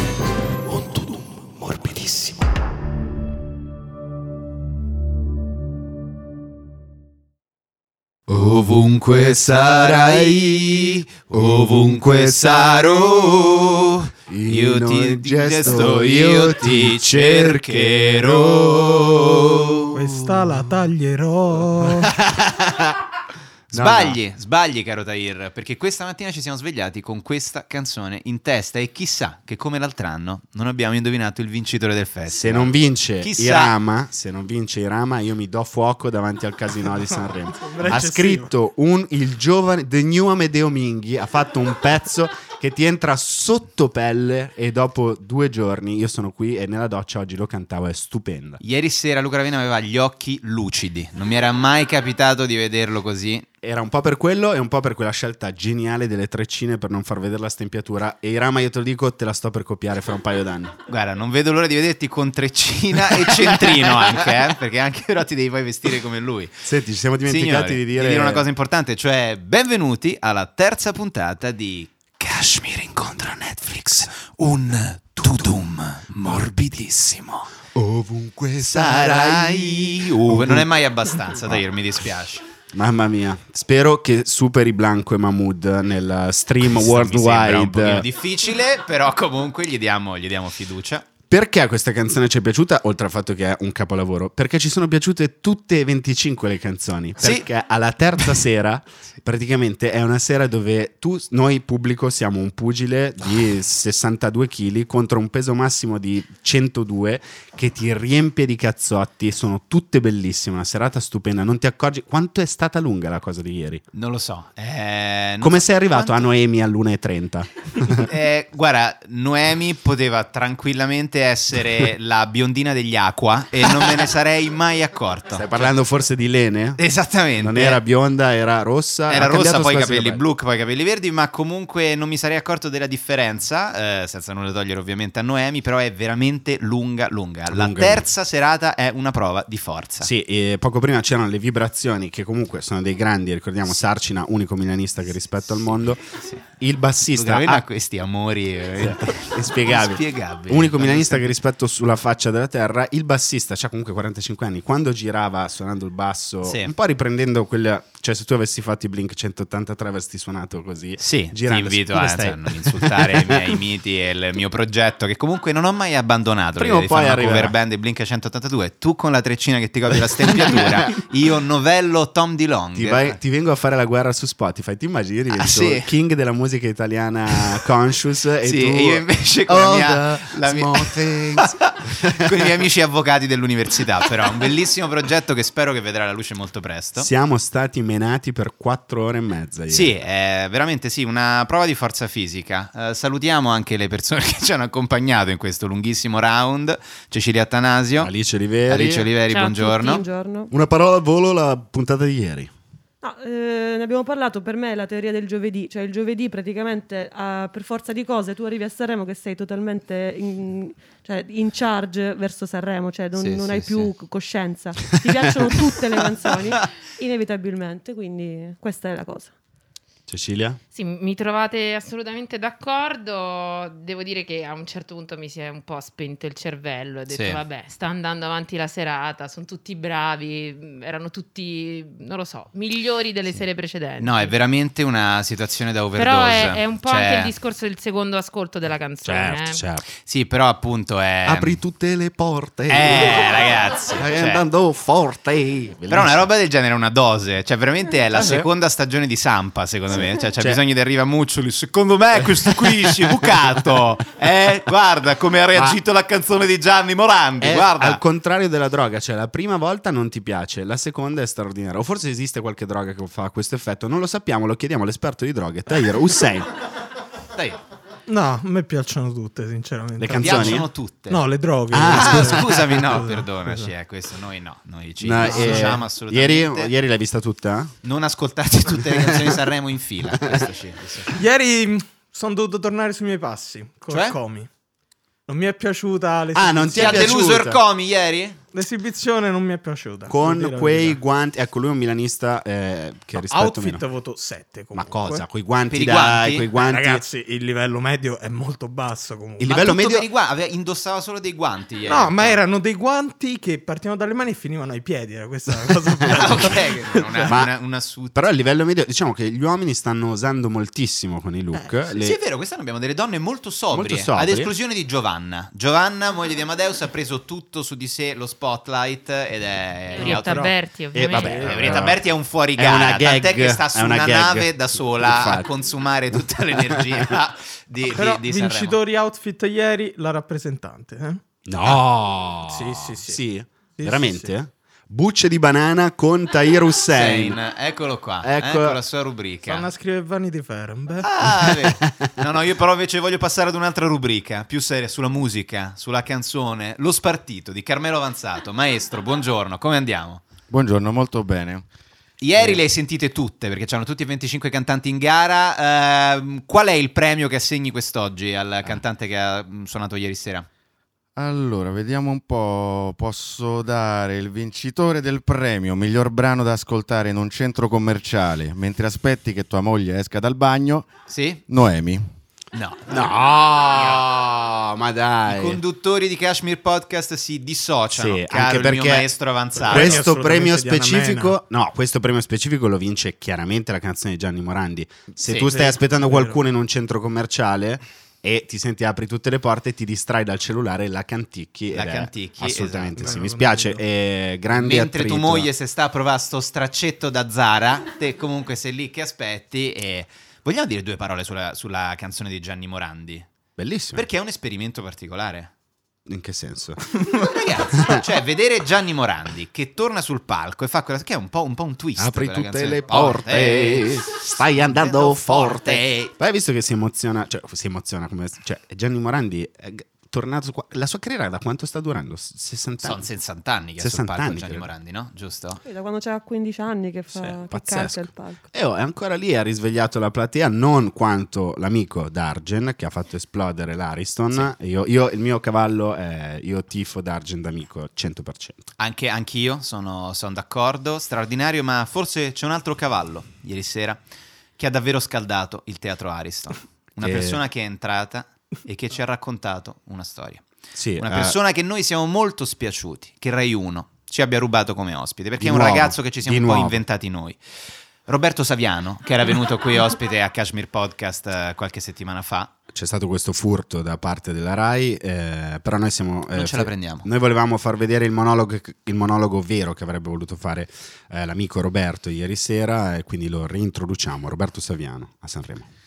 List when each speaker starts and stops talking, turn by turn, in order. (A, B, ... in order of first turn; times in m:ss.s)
0:00.7-0:02.4 A
0:08.3-0:19.9 A
0:11.3-0:12.8 B
0:14.3-0:19.5 B
0:19.9-0:22.1 C
0:22.0-0:23.0 B
0:23.7-0:24.2 B
0:23.7-0:33.7 A
0:32.3-0:48.6 B
0:37.6-0:38.5 C
0:48.6-0:53.5 A
0:53.6-1:00.8 B
1:00.9-1:06.6 A
1:03.2-1:03.8 B
1:06.6-1:08.5 B
1:07.2-1:17.5 A
1:15.2-1:15.5 B
1:17.8-1:20.7 B
1:18.6-1:22.4 A
1:22.7-1:28.1 B
1:26.6-1:31.1 A
1:31.3-1:53.8 B
1:37.2-1:37.5 A
1:53.9-1:56.3 A
1:55.4-1:58.1 B
1:58.0-2:05.7 A
2:05.3-2:06.8 B
2:06.8-2:07.8 A
2:07.4-2:10.2 B
2:09.1-2:20.1 A
2:17.5-2:18.1 B
2:20.0-2:26.0 B
2:26.6-2:27.6 B
2:27.1-2:31.3 A
2:28.8-2:43.6 B
2:36.4-2:36.7 A
2:41.0-2:53.2 A
2:46.6-2:47.6 B
2:50.2-2:50.9 B
2:52.7-3:02.5 B
2:55.3-2:55.9 A
2:58.4-3:07.1 A
3:07.0-3:09.9 B
3:09.7-3:18.1 A
3:18.0-3:19.1 B
3:18.7-3:20.0 A
3:19.3-3:20.0 D
3:19.9-3:20.5 E
3:20.5-3:22.5 B
3:23.0-3:39.3 E
3:33.1-3:33.9 A
3:40.1-3:40.6 B
3:40.7-3:54.3 D
3:47.1-3:47.4 A
3:54.0-3:57.3 A
3:56.0-3:59.6 D
3:59.0-3:59.8 B
4:00.0-4:01.6 A
4:01.2-4:06.3 B
4:02.7-4:04.4 A
4:05.9-4:18.0 A
4:08.1-4:08.5 B
4:10.0-4:10.6 B
4:17.4-4:26.5 B
4:27.3-4:27.6 A
4:28.1-4:33.7 C
4:30.0-4:30.7 B
4:30.1-4:31.2 A
4:31.7-4:32.5 B
4:31.9-4:36.7 A
4:35.0-4:37.7 B
4:35.2-4:35.8 C
4:37.8-4:41.1 A
4:38.7-4:39.4 B
4:40.1-4:40.5 B
4:41.1-4:44.5 C
4:43.9-4:44.2 A
4:45.3-4:47.3 C
4:46.3-4:47.6 B
4:46.8-4:48.4 A
4:48.5-4:51.0 C
4:50.1-4:53.8 B
4:53.2-4:55.2 C
4:54.7-4:57.0 B
4:55.7-4:56.4 A
4:56.6-4:59.7 C
4:59.4-5:00.1 B
4:59.5-5:02.4 A
5:01.8-5:07.4 C
5:06.0-5:06.4 B
5:06.1-5:08.1 A
5:08.1-5:12.2 B
5:11.9-5:20.5 A
5:13.7-5:14.5 B
5:19.9-5:21.8 D
5:20.0-5:21.8 C
5:20.9-5:22.0 B
5:21.2-5:28.8 A
5:22.6-5:25.5 B
5:26.7-5:27.1 B
5:27.8-5:31.2 C
5:31.5-5:37.4 B
5:32.4-5:33.2 C
5:33.8-5:34.3 C
5:36.9-5:39.7 A
5:38.2-5:38.8 B
5:39.4-5:41.1 C
5:41.0-5:50.2 A
5:41.5-5:42.1 B
5:50.5-5:51.6 F
5:52.2-6:00.5 A
6:01.2-6:10.9 F
6:11.1-6:11.4 A
6:11.5-6:12.1 F
6:12.5-6:13.1 A
6:12.9-6:15.6 B
6:13.7-6:14.0 A
6:15.3-6:20.0 A
6:17.9-6:19.1 B
6:19.6-6:21.4 C
6:19.7-6:35.5 B
6:25.3-6:26.4 C
6:31.7-6:33.1 A
6:32.9-6:33.8 C
6:34.5-6:43.3 A
6:43.6-6:44.1 B
6:43.9-6:45.5 A
6:46.1-6:46.9 B
6:47.0-6:54.0 A
6:47.7-6:48.0 B
6:52.0-7:03.0 B
6:54.7-6:56.1 A
7:02.8-7:05.6 A
7:03.8-7:04.7 B
7:05.6-7:08.4 E
7:07.2-7:18.7 B
7:18.8-7:24.0 A
7:24.6-7:30.4 A
7:27.0-7:27.4 B
7:30.8-7:31.4 B
7:31.0-7:37.4 A
7:35.4-7:36.8 B
7:38.1-7:42.5 A
7:42.7-7:55.7 B
7:46.3-7:47.1 A